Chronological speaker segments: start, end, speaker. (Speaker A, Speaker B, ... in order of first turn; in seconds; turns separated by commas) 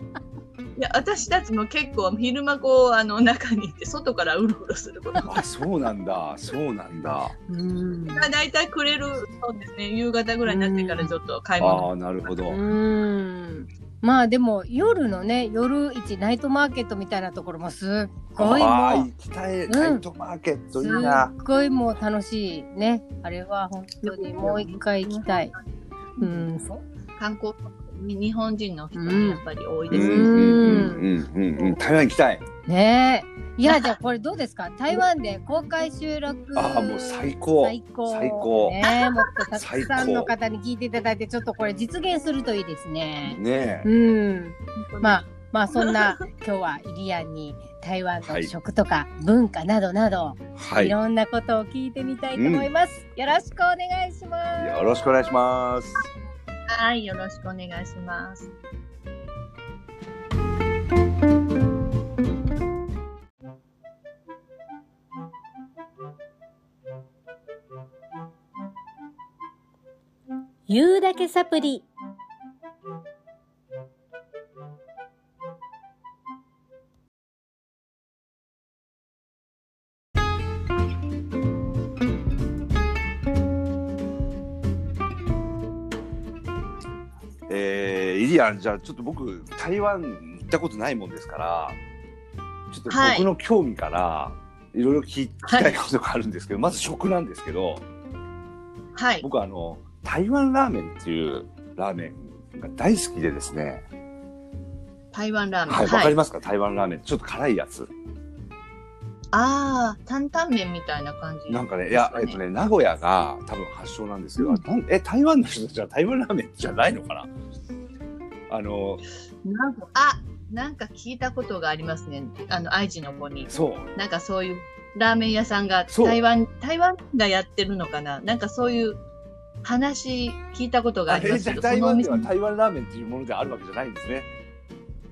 Speaker A: 0.8-5.3, Speaker B: 5.2-7.3, Speaker C: 7.5-8.3, Speaker A: 8.1-11.9, Speaker C: 10.5-11.1, Speaker B: 11.6-12.6, Speaker C: 12.5-19.1, Speaker B: 18.4-21.3, Speaker C: 19.7-20.0, Speaker C: 20.8-25.5, Speaker A: 20.8-21.2, Speaker A: 24.0-25.6, Speaker A: 26.1-30.9, Speaker C: 26.2-26.7, Speaker C: 28.9-31.1, Speaker B: 29.9-32.4, Speaker C: 32.7-55.0, Speaker A: 33.7-34.0, Speaker B: 36.5-38.8, Speaker A: 38.8-39.3, Speaker B: 39.5-40.3, Speaker B: 43.3-43.9, Speaker A: 44.8-46.2, Speaker B: 48.2-48.5, Speaker B: 50.6-51.0, Speaker B: 52.3-52.7, Speaker B: 54.6-56.0, Speaker A: 56.7-58.5, Speaker C: 70.7-71.9, Speaker B: 87.5-91.8, Speaker B: 92.7-97.8, Speaker A: 92.9-93.3, Speaker A: 95.5-95.8, Speaker A: 99.0-99.2, Speaker B: 99.2-103.8, Speaker A: 105.1-106.2, Speaker B: 105.7-107.9, Speaker A: 109.3-112.4, Speaker B: 111.5-117.3, Speaker B: 118.5-119.0, Speaker A: 119.4-129.0, Speaker B: 123.5-123.9, Speaker B: 125.9-126.2, Speaker A: 129.6-132.3, Speaker B: 131.1-134.3